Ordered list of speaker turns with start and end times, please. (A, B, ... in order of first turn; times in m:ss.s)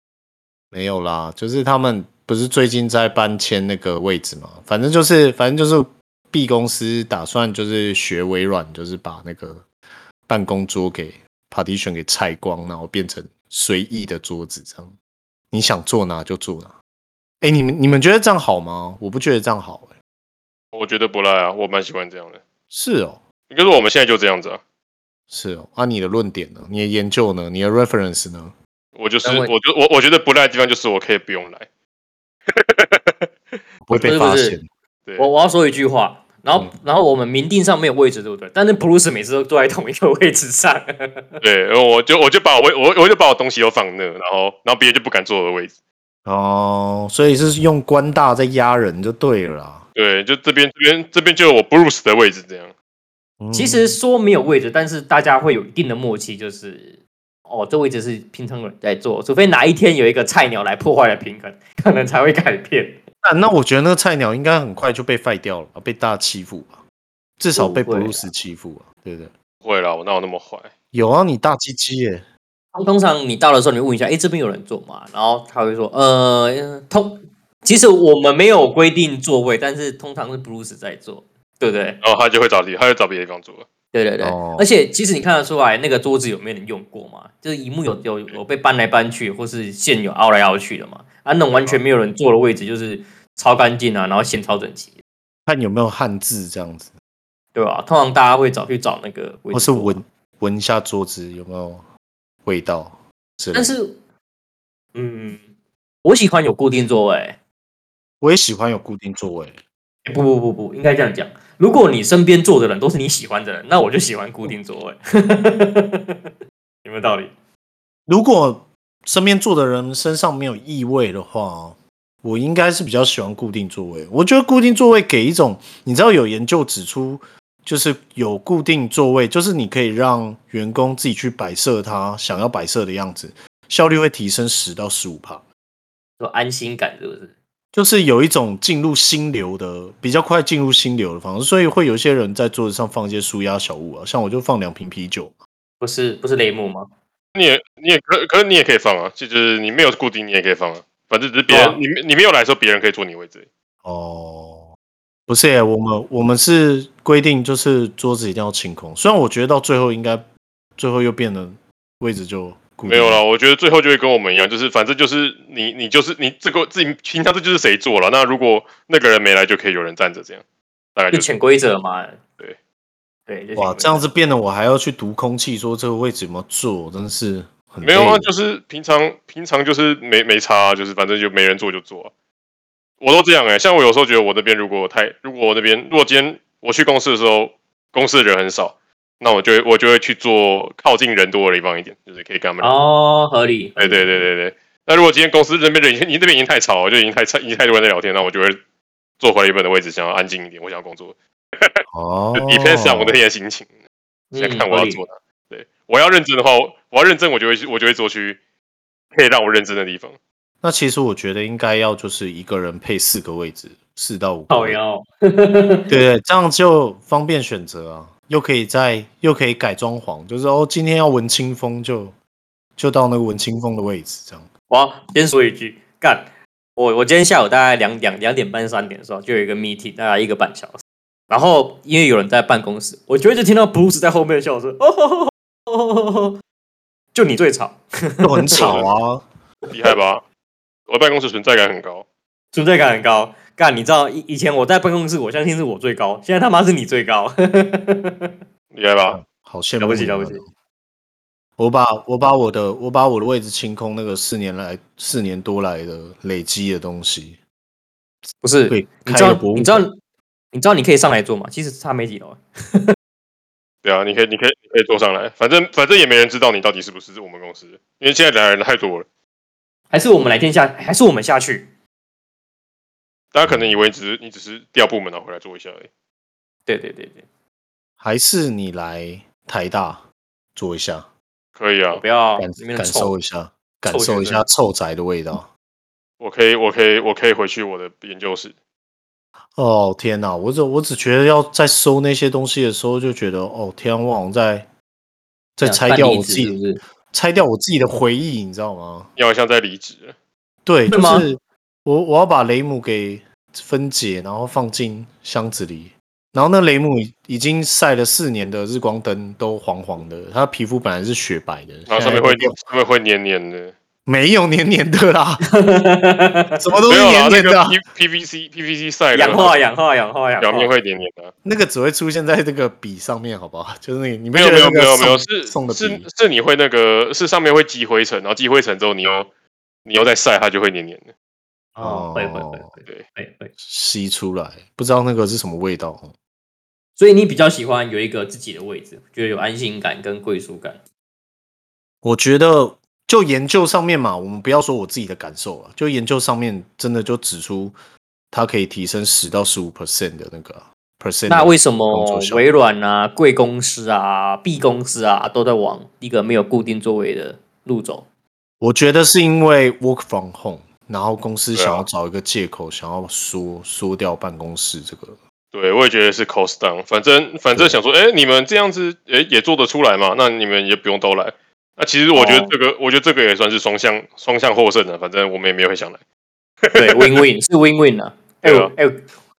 0:00.7-0:09.7 A
0:10.3-0:15.0 A
0:15.5-0:16.8 A
0:17.4-0:20.0 A
0:20.7-0:22.4 B
0:22.7-0:23.2 A
0:23.5-0:24.6 B
0:25.3-0:28.5 A
0:29.0-0:31.7 B
0:29.2-0:29.5 C
0:32.5-0:33.3 B
0:33.9-0:34.7 A
0:33.9-0:34.6 C
0:35.2-0:41.4 C
0:41.4-0:45.7 B
0:46.2-0:49.9 A
0:50.0-0:52.7 B
0:53.4-0:54.0 A
0:53.5-1:03.0 C
1:03.2-1:06.8 A
1:07.4-1:09.3 A
1:07.6-1:08.3 C
1:09.6-1:10.7 B
1:10.9-1:12.2 A
1:12.7-1:22.0 C
1:22.0-1:23.7 B
1:23.9-1:35.0 C
1:24.2-1:24.7 A
1:35.5-1:36.9 A
1:37.6-1:40.0 C
1:39.5-1:41.8 A
1:42.4-1:43.7 A
1:43.5-1:44.0 C
1:45.0-1:45.4 C
1:46.0-1:47.4 C
1:48.2-1:49.6 A
1:50.0-1:56.3 C
1:56.8-1:57.3 C
1:58.1-2:15.4 A
2:16.2-2:17.3 C
2:17.7-2:25.4 A
2:25.8-2:26.9 C
2:27.4-2:33.5 B
2:31.5-2:31.8 C
2:33.8-2:34.7 A
2:35.3-2:40.2 A
2:40.8-2:43.2 A
2:42.8-2:50.4 B
2:51.0-2:51.3 B
2:51.1-2:52.2 C
2:53.3-2:54.1 C
2:53.6-2:58.3 A
2:57.8-3:02.1 B
3:03.0-3:12.7 B
3:12.6-3:14.1 C
3:13.8-3:18.6 B
3:19.2-3:21.8 B
3:21.9-3:23.2 A
3:22.4-3:23.7 B
3:24.3-3:25.0 C
3:24.4-3:28.4 B
3:29.1-3:30.2 B
3:30.6-3:34.8 A
3:34.5-3:35.9 C
3:35.9-3:42.1 A
3:42.8-3:44.5 A
3:44.7-3:56.4 C
3:57.1-3:58.8 C
3:58.2-3:59.2 A
3:58.6-3:58.9 B
3:59.7-4:00.2 B
4:00.9-4:02.0 B
4:02.5-4:08.3 C
4:08.7-4:09.2 B
4:09.1-4:10.5 A
4:09.8-4:10.4 C
4:11.6-4:17.4 A
4:18.4-4:20.0 C
4:18.7-4:19.9 A
4:20.5-4:22.9 C
4:23.8-4:29.1 B
4:29.9-4:31.7 C
4:33.3-4:35.9 B
4:33.4-4:33.8 A
4:36.7-4:37.2 C
4:38.0-4:40.0 A
4:40.6-4:41.1 A
4:41.6-4:42.0 B
4:41.9-4:43.1 C
4:42.4-4:45.5 A
4:43.9-4:44.4 C
4:46.2-4:48.5 B
4:49.6-4:54.7 A
4:55.6-4:59.1 A
4:55.6-4:56.8 C
4:59.2-5:00.1 B
5:00.6-5:12.6 A
5:00.9-5:01.3 C
5:11.9-5:13.8 B
5:14.1-5:15.4 A
5:15.5-5:16.6 C
5:16.6-5:17.8 A
5:16.9-5:19.6 B
5:19.1-5:20.7 C
5:20.4-5:21.3 B
5:21.4-5:26.0 A
5:24.3-5:29.3 B
5:29.9-5:31.1 B
5:31.8-5:32.7 A
5:31.8-5:33.5 C
5:33.6-5:36.1 A
5:37.0-5:40.8 C
5:42.0-5:47.8 A
5:48.3-5:52.4 A
5:51.3-5:58.1 C
5:58.6-6:05.2 A
6:01.5-6:01.8 B
6:05.5-6:16.0 B
6:12.1-6:12.5 C
6:16.6-6:17.2 B
6:16.7-6:19.0 C
6:18.4-6:18.7 B